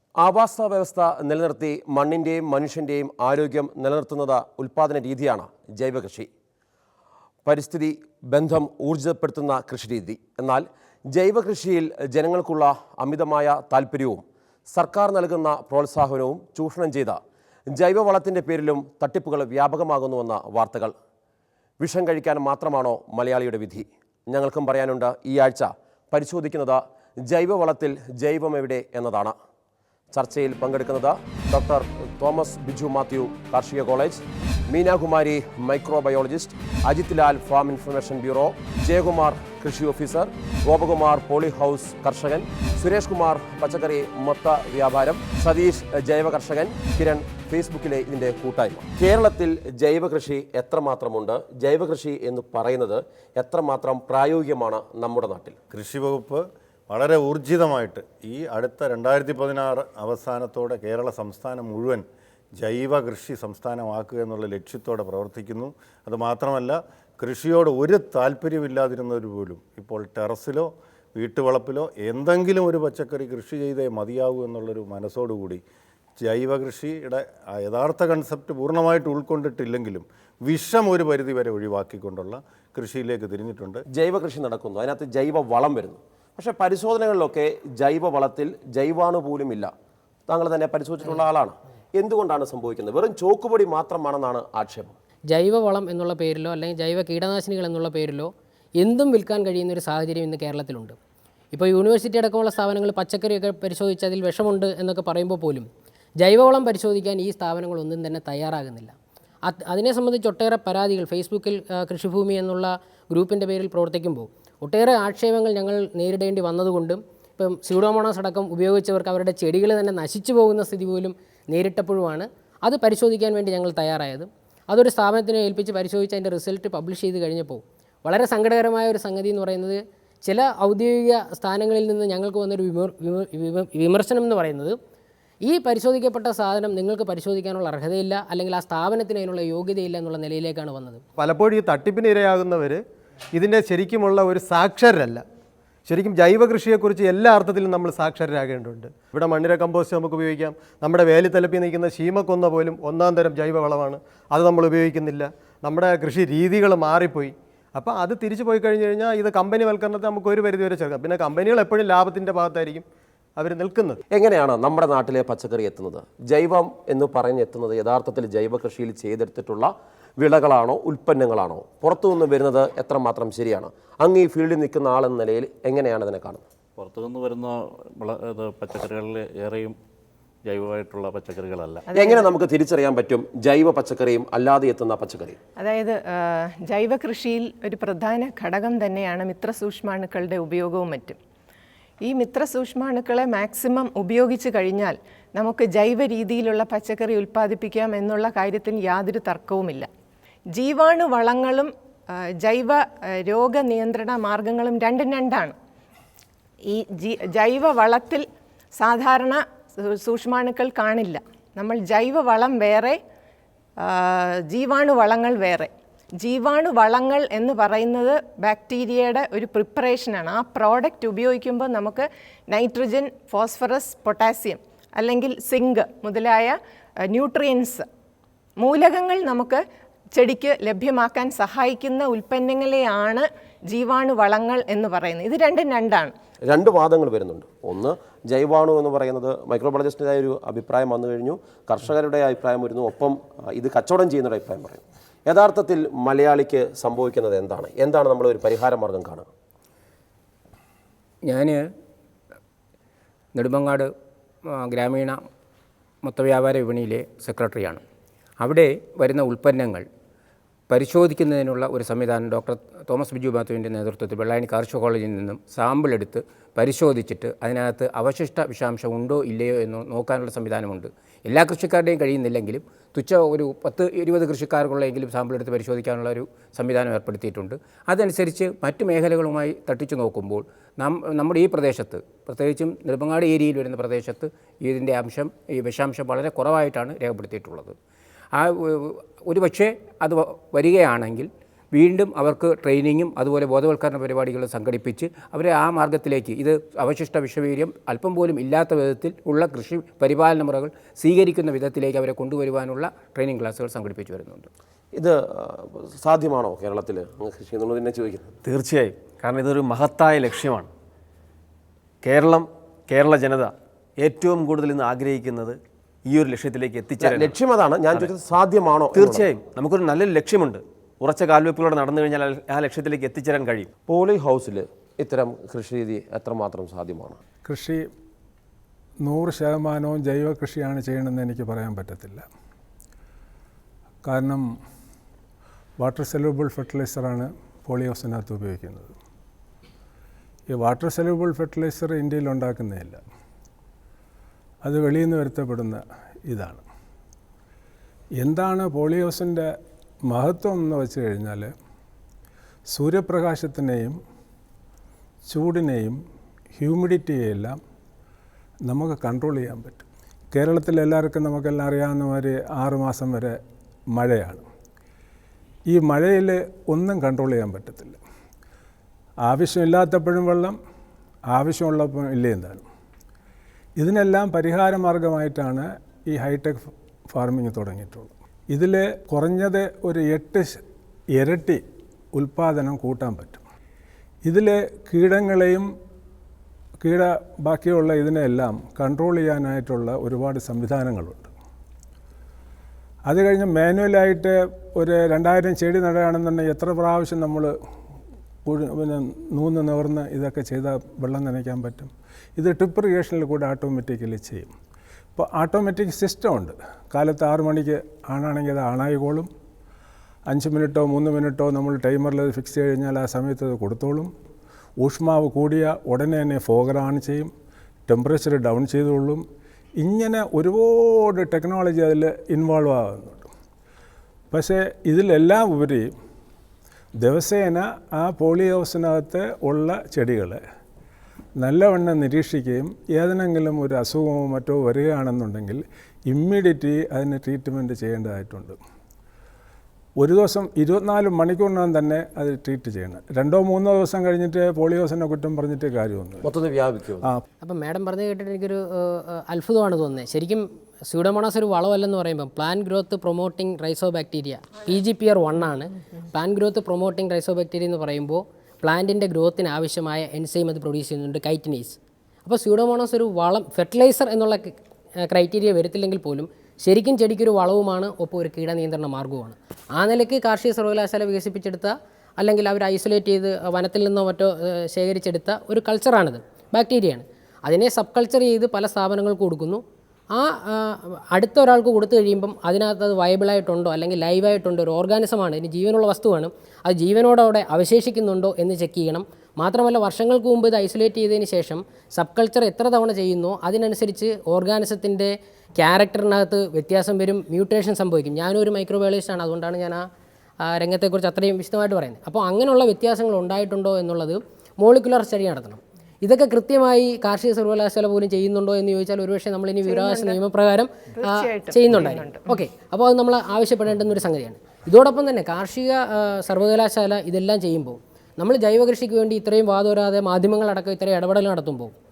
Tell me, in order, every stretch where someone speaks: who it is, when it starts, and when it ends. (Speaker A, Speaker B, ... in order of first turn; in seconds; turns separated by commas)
Speaker A: 0.2-6.3, Speaker A: 7.5-20.9, Speaker A: 21.8-29.4, Speaker A: 30.1-55.6, Speaker B: 55.7-62.0, Speaker B: 62.6-75.6, Speaker B: 76.2-83.8, Speaker A: 83.9-89.7, Speaker A: 90.3-95.0, Speaker C: 95.3-101.0, Speaker C: 101.5-105.7, Speaker C: 106.2-134.8, Speaker C: 135.4-141.0, Speaker D: 141.2-142.8, Speaker D: 143.3-145.2, Speaker D: 145.9-162.9, Speaker D: 163.4-164.0, Speaker A: 164.1-176.4, Speaker E: 176.8-177.5, Speaker E: 178.0-179.7, Speaker E: 180.5-181.8, Speaker F: 181.9-182.2, Speaker A: 181.9-185.4, Speaker F: 185.6-191.2, Speaker F: 192.0-199.9, Speaker F: 200.5-201.7, Speaker F: 202.4-205.5, Speaker F: 206.7-213.0, Speaker F: 213.8-227.8, Speaker F: 228.6-229.6, Speaker F: 230.2-236.1, Speaker A: 236.5-249.3, Speaker G: 251.2-251.6, Speaker G: 253.3-253.9, Speaker G: 254.5-255.2, Speaker G: 256.0-257.8, Speaker G: 258.4-259.9, Speaker G: 260.7-287.8, Speaker G: 288.4-304.5, Speaker A: 304.9-308.3, Speaker H: 308.4-310.7, Speaker H: 312.0-317.4, Speaker A: 317.0-319.3, Speaker H: 319.0-323.7, Speaker A: 323.9-327.2, Speaker I: 327.4-327.9, Speaker I: 329.1-332.2, Speaker I: 334.0-334.4, Speaker I: 335.8-338.9, Speaker I: 340.5-343.0, Speaker I: 344.6-346.6, Speaker I: 348.2-349.5, Speaker I: 350.1-351.5, Speaker I: 352.7-353.9, Speaker I: 355.3-356.0, Speaker I: 356.6-357.6, Speaker I: 358.7-363.4, Speaker I: 364.0-364.4, Speaker I: 365.7-368.0, Speaker I: 369.3-370.6, Speaker I: 371.3-372.6, Speaker I: 373.8-380.6, Speaker I: 381.2-381.6, Speaker I: 382.1-383.4, Speaker I: 384.2-385.7, Speaker I: 386.8-391.3, Speaker I: 393.1-397.5, Speaker I: 398.5-404.5, Speaker I: 405.1-409.3, Speaker I: 410.3-414.1, Speaker I: 414.8-417.3, Speaker I: 417.9-419.2, Speaker I: 419.8-423.3, Speaker I: 424.3-425.9, Speaker I: 427.0-430.4, Speaker I: 431.4-438.6, Speaker I: 440.0-446.3, Speaker A: 446.2-447.1, Speaker C: 447.4-479.6, Speaker C: 480.1-499.8, Speaker C: 500.4-521.7, Speaker F: 509.6-510.2, Speaker F: 510.9-512.3